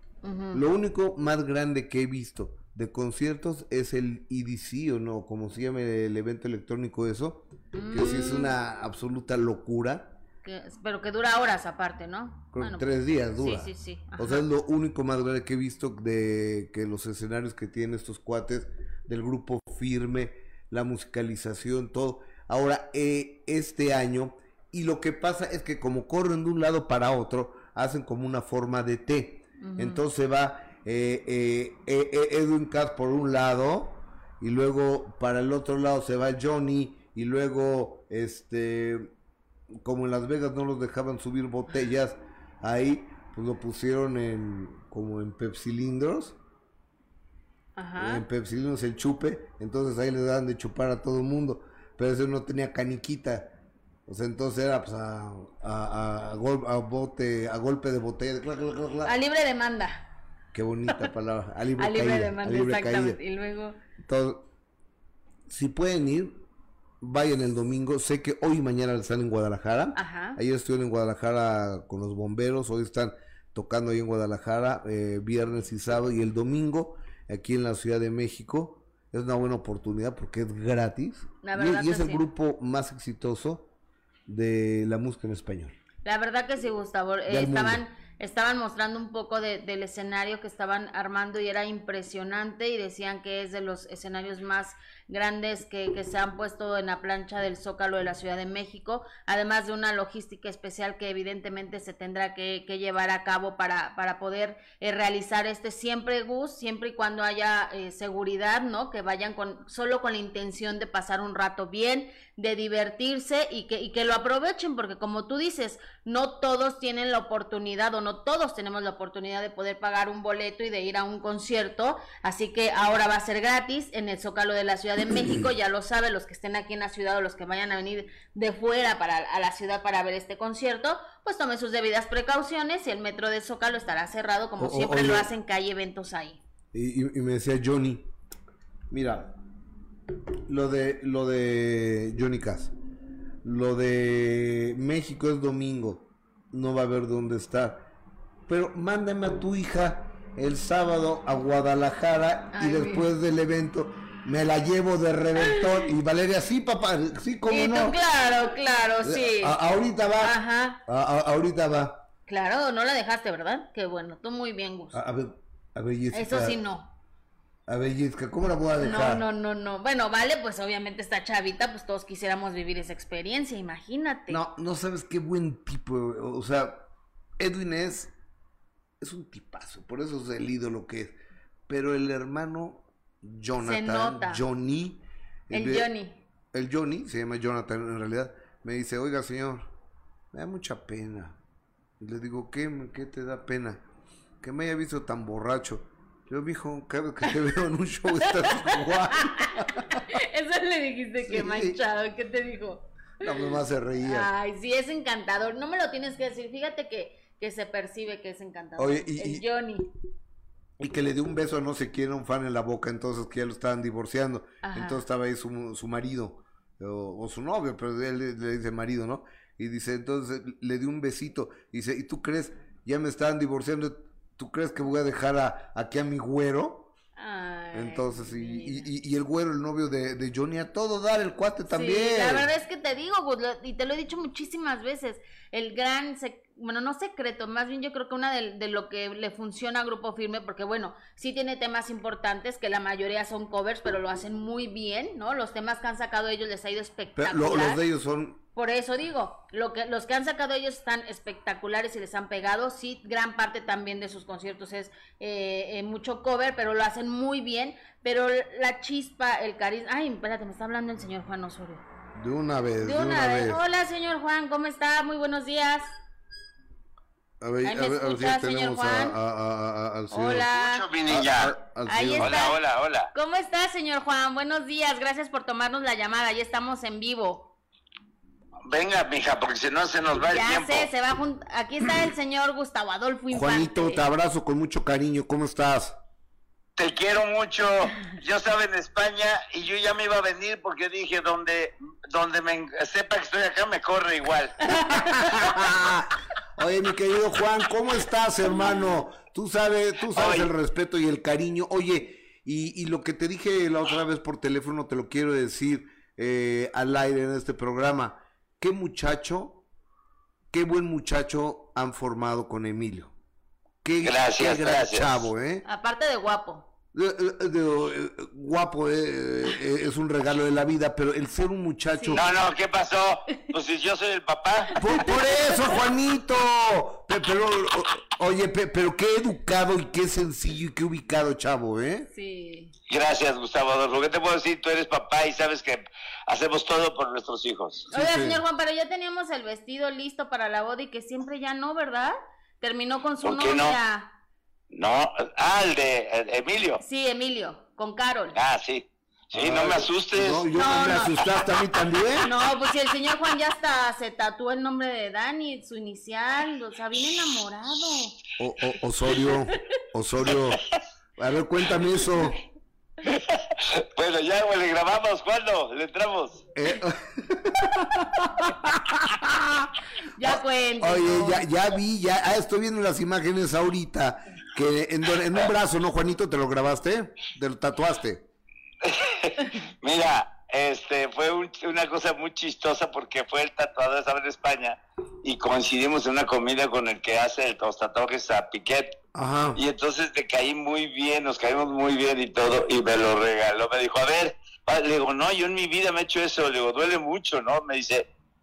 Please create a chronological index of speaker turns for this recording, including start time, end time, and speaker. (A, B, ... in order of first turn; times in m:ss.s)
0:00.2-0:00.6 A
0:00.5-0:10.2 B
0:07.7-0:08.6 A
0:10.4-0:14.4 A
0:12.5-0:39.1 B
0:29.6-0:30.0 A
0:39.7-0:46.4 B
0:47.8-0:48.2 A
0:48.0-0:53.6 B
0:54.1-0:59.2 B
0:59.0-1:00.0 A
1:00.5-1:03.2 B
1:01.8-1:03.8 A
1:04.0-1:04.5 B
1:05.5-1:06.4 B
1:07.0-1:23.7 B
1:10.0-1:10.4 A
1:21.4-1:22.2 A
1:24.3-1:25.7 B
1:26.0-2:16.4 A
1:27.3-1:27.8 B
2:14.6-2:15.3 B
2:16.7-2:18.1 B
2:18.9-2:19.3 B
2:20.5-2:22.7 B
2:23.4-2:27.9 B
2:28.5-2:38.0 B
2:32.5-2:33.1 A
2:35.4-2:35.8 A
2:37.5-2:39.6 A
2:39.0-2:42.0 B
2:40.2-2:40.8 A
2:42.3-2:45.0 A
2:44.9-2:46.6 B
2:46.1-2:46.9 A
2:47.7-2:49.3 B
2:48.8-2:54.4 A
2:54.3-2:56.9 B
2:57.4-2:58.1 B
2:59.0-3:01.2 B
3:01.7-3:05.9 B
3:03.6-3:04.4 A
3:05.5-3:06.2 A
3:06.5-3:09.7 B
3:10.3-3:11.4 B
3:12.0-3:13.8 B
3:14.4-3:20.0 B
3:18.2-3:23.5 A
3:21.2-3:21.8 B
3:23.2-3:24.3 B
3:24.0-3:29.9 A
3:28.8-3:29.5 B
3:30.8-3:46.9 B
3:34.6-3:35.0 A
3:47.2-3:48.9 A
3:47.7-3:52.5 B
3:51.7-4:07.8 A
4:07.2-4:08.4 B
4:08.6-4:21.8 A
4:22.2-4:23.6 B
4:22.8-4:25.9 A
4:27.4-4:30.5 B
4:27.6-4:29.2 A
4:30.1-4:30.9 A
4:30.5-4:31.6 C
4:31.1-4:32.4 B
4:31.9-4:32.6 A
4:32.2-4:33.1 C
4:33.1-4:37.5 A
4:38.7-4:40.9 C
4:40.3-4:44.0 A
4:43.3-4:46.0 B
4:46.8-4:55.2 C
4:54.7-5:09.6 B
5:00.1-5:00.5 C
5:10.5-5:13.1 B
5:13.8-5:15.6 B
5:14.0-5:15.3 C
5:15.6-5:16.7 A
5:16.9-5:22.3 B
5:21.9-5:22.2 A
5:22.2-5:24.8 C
5:24.8-5:32.1 B
5:32.1-5:32.7 A
5:32.9-5:37.9 C
5:37.9-5:38.4 B
5:37.9-5:44.1 A
5:43.2-5:43.8 C
5:44.7-5:46.8 C
5:46.8-5:48.4 A
5:48.4-5:50.5 C
5:49.3-5:52.3 B
5:50.6-5:51.1 A
5:52.2-5:58.2 A
5:58.4-6:00.6 B
6:01.2-6:02.4 B
6:03.1-6:06.4 C
6:06.6-6:18.3 B
6:10.2-6:11.4 A
6:18.8-6:29.0 C
6:29.1-6:29.6 B
6:29.6-6:38.1 C